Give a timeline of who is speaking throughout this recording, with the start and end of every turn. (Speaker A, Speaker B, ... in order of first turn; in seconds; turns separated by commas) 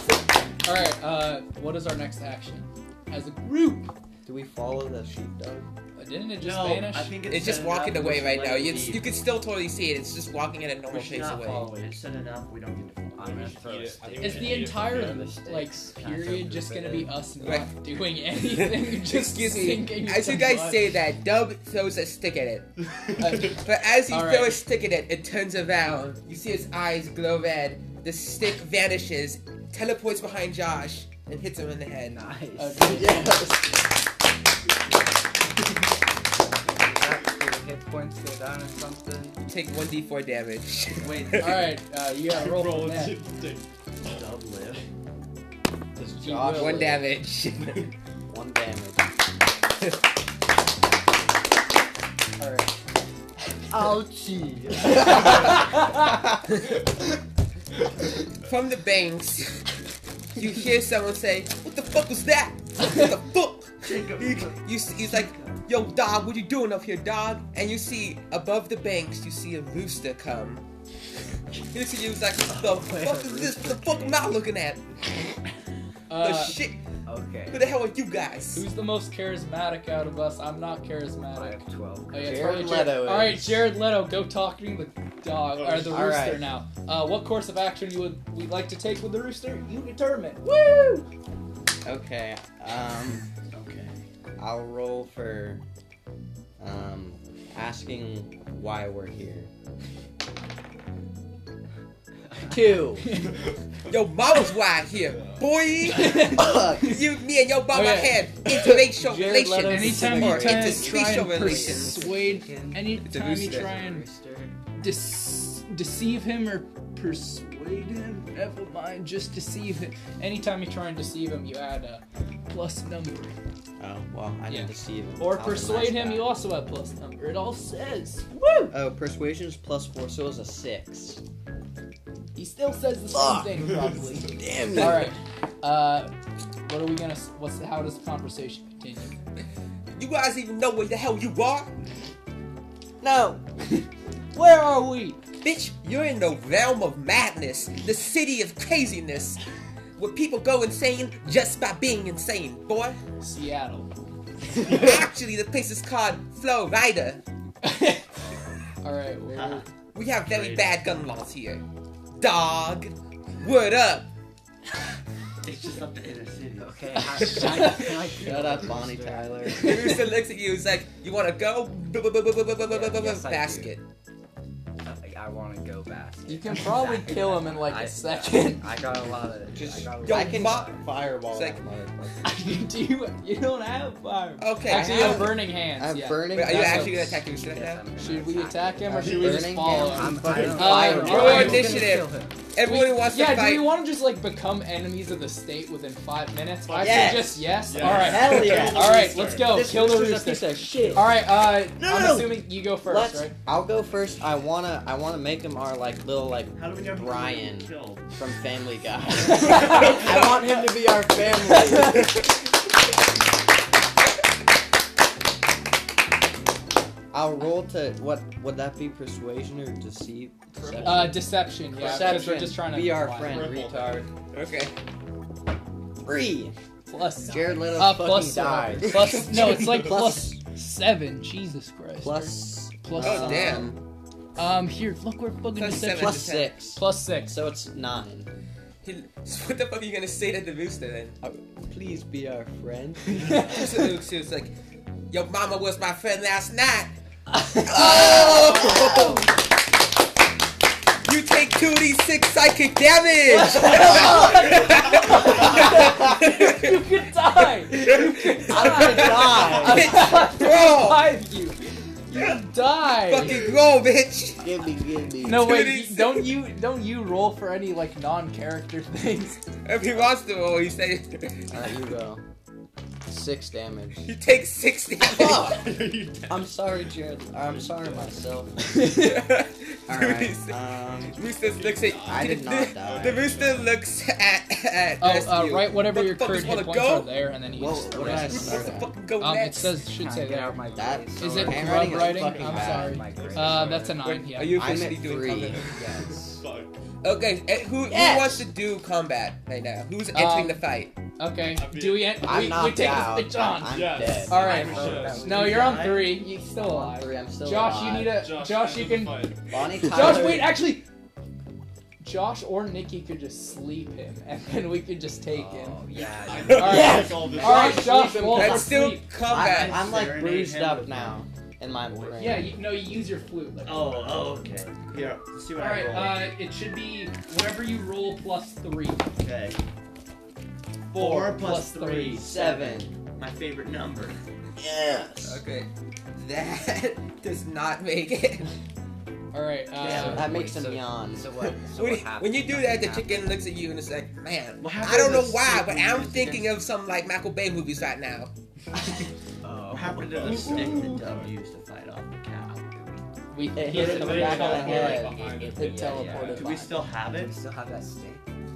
Speaker A: 0.6-3.9, Speaker B: 4.2-5.7, Speaker A: 6.0-7.2, Speaker C: 6.4-9.1, Speaker D: 7.3-11.7, Speaker C: 10.9-13.5, Speaker E: 13.2-17.2, Speaker F: 13.2-15.2, Speaker A: 14.2-21.0, Speaker D: 17.4-17.8, Speaker D: 18.4-22.7, Speaker A: 23.2-24.6, Speaker D: 23.3-32.3, Speaker E: 32.1-33.1, Speaker A: 32.6-33.3, Speaker B: 32.8-33.7, Speaker E: 36.8-39.4, Speaker D: 39.5-41.6, Speaker C: 41.0-41.7, Speaker A: 41.4-43.2, Speaker F: 42.3-44.3, Speaker C: 44.0-44.8, Speaker B: 46.0-47.0, Speaker A: 46.2-47.0, Speaker D: 46.5-47.9, Speaker B: 48.3-49.1, Speaker A: 52.4-52.7, Speaker B: 53.7-55.5, Speaker A: 55.0-55.9, Speaker D: 58.4-59.7, Speaker D: 60.4-70.7, Speaker C: 63.8-65.7, Speaker D: 71.7-74.8, Speaker E: 72.5-74.4, Speaker A: 76.1-76.6, Speaker D: 76.1-76.8, Speaker E: 77.1-77.8, Speaker D: 77.5-78.7, Speaker A: 78.5-81.6, Speaker E: 81.3-82.8, Speaker A: 82.1-90.5, Speaker B: 82.2-83.7, Speaker F: 85.5-86.2, Speaker B: 85.9-86.5, Speaker B: 90.4-91.1, Speaker B: 91.8-93.3, Speaker C: 93.5-94.0, Speaker B: 94.4-95.6, Speaker B: 96.6-99.5, Speaker B: 102.5-103.2, Speaker A: 103.0-103.3, Speaker F: 103.1-103.9, Speaker D: 103.9-112.1, Speaker F: 105.0-105.5, Speaker A: 105.8-107.0, Speaker B: 106.2-106.9, Speaker A: 107.7-108.7, Speaker B: 108.5-112.2, Speaker A: 109.7-114.1, Speaker E: 111.8-114.5, Speaker D: 113.0-113.7, Speaker A: 114.8-123.3, Speaker B: 123.8-126.3, Speaker A: 124.5-128.8, Speaker B: 128.7-131.2, Speaker A: 132.3-136.1, Speaker B: 133.1-133.7, Speaker B: 134.3-135.2, Speaker A: 136.7-139.2, Speaker D: 139.9-141.7, Speaker B: 143.0-143.4, Speaker A: 143.7-145.2, Speaker D: 145.4-149.4, Speaker D: 150.0-153.0, Speaker A: 153.2-153.9, Speaker D: 154.6-157.2, Speaker A: 157.6-158.1, Speaker A: 158.8-159.7, Speaker C: 159.3-159.7, Speaker D: 159.9-161.6, Speaker C: 160.2-160.8, Speaker D: 162.2-164.1, Speaker C: 165.4-167.2, Speaker E: 166.6-169.7, Speaker A: 167.2-168.0, Speaker B: 168.2-169.9, Speaker D: 169.6-173.8, Speaker E: 172.7-173.7, Speaker E: 174.8-180.9, Speaker A: 176.3-178.7, Speaker B: 179.6-182.3, Speaker D: 180.0-181.6, Speaker A: 182.2-186.9, Speaker D: 184.4-185.4, Speaker B: 184.7-187.3, Speaker D: 186.3-187.8, Speaker E: 187.3-189.3, Speaker A: 188.0-191.9, Speaker B: 188.9-191.9, Speaker F: 188.9-190.5, Speaker E: 189.9-192.5, Speaker D: 190.8-193.8, Speaker A: 192.6-203.3, Speaker F: 196.7-199.6, Speaker B: 196.8-201.2, Speaker C: 198.4-198.8, Speaker B: 201.8-212.2, Speaker C: 206.5-208.1, Speaker A: 209.3-210.1, Speaker A: 211.5-212.1, Speaker B: 217.1-224.1, Speaker F: 220.6-221.2, Speaker A: 220.8-223.6, Speaker F: 221.8-222.4, Speaker F: 223.2-224.1, Speaker D: 224.3-224.7, Speaker B: 226.0-226.5, Speaker A: 226.9-233.7, Speaker B: 227.3-230.4, Speaker B: 232.0-233.8, Speaker D: 233.0-233.8, Speaker A: 234.4-237.4, Speaker D: 235.6-236.6, Speaker B: 235.9-238.3, Speaker D: 238.8-241.2, Speaker B: 241.2-243.6, Speaker A: 243.1-243.6, Speaker D: 243.4-244.5, Speaker D: 245.1-246.9, Speaker A: 247.3-249.3, Speaker D: 247.5-249.2, Speaker B: 247.8-249.2, Speaker D: 251.0-256.9, Speaker A: 253.3-263.5, Speaker B: 253.5-254.8, Speaker D: 257.7-261.1, Speaker B: 258.5-260.1, Speaker D: 262.9-264.5, Speaker B: 264.4-265.6, Speaker A: 265.2-269.4, Speaker D: 265.3-266.3, Speaker D: 269.6-271.8, Speaker B: 271.5-272.2, Speaker B: 273.1-274.1, Speaker D: 274.1-275.7, Speaker B: 275.0-275.8, Speaker F: 275.3-276.6, Speaker B: 276.3-279.0, Speaker A: 278.7-279.1, Speaker D: 278.7-287.2, Speaker B: 279.9-281.2, Speaker F: 281.2-283.7, Speaker B: 282.1-283.3, Speaker A: 285.0-290.6, Speaker B: 287.6-288.9, Speaker D: 287.9-289.8, Speaker E: 289.9-294.0, Speaker B: 290.8-293.0, Speaker A: 291.1-294.8, Speaker F: 292.4-294.0, Speaker D: 294.0-295.7, Speaker B: 294.6-295.6, Speaker F: 295.5-296.8, Speaker E: 295.7-296.4, Speaker D: 297.0-300.9, Speaker B: 297.9-298.5, Speaker A: 300.1-300.7, Speaker A: 301.2-310.9, Speaker F: 301.5-302.7, Speaker B: 302.2-304.9, Speaker F: 303.6-305.4, Speaker C: 304.2-306.3, Speaker E: 304.6-305.8, Speaker B: 306.6-308.3, Speaker F: 308.0-309.5, Speaker B: 309.5-310.6, Speaker A: 312.0-315.8, Speaker E: 315.3-317.0, Speaker F: 316.0-318.2, Speaker A: 316.5-319.1, Speaker B: 316.6-322.6, Speaker D: 318.3-319.9, Speaker C: 319.3-321.2, Speaker C: 321.8-322.5, Speaker A: 322.2-324.4, Speaker C: 323.6-326.3, Speaker A: 325.6-329.0, Speaker C: 329.2-329.6, Speaker C: 330.9-334.2, Speaker A: 330.9-332.2, Speaker B: 332.2-332.9, Speaker B: 334.6-335.4, Speaker D: 335.2-338.5, Speaker A: 339.3-340.4, Speaker C: 339.8-340.4, Speaker B: 339.8-341.3, Speaker E: 340.0-343.3, Speaker D: 341.4-348.3, Speaker C: 344.6-346.6, Speaker E: 349.4-350.6, Speaker C: 349.7-352.7, Speaker F: 350.1-351.3, Speaker A: 350.3-350.9, Speaker E: 352.7-353.0, Speaker A: 353.3-356.8, Speaker B: 353.6-355.3, Speaker F: 353.6-356.4, Speaker E: 354.2-358.2, Speaker C: 356.3-357.4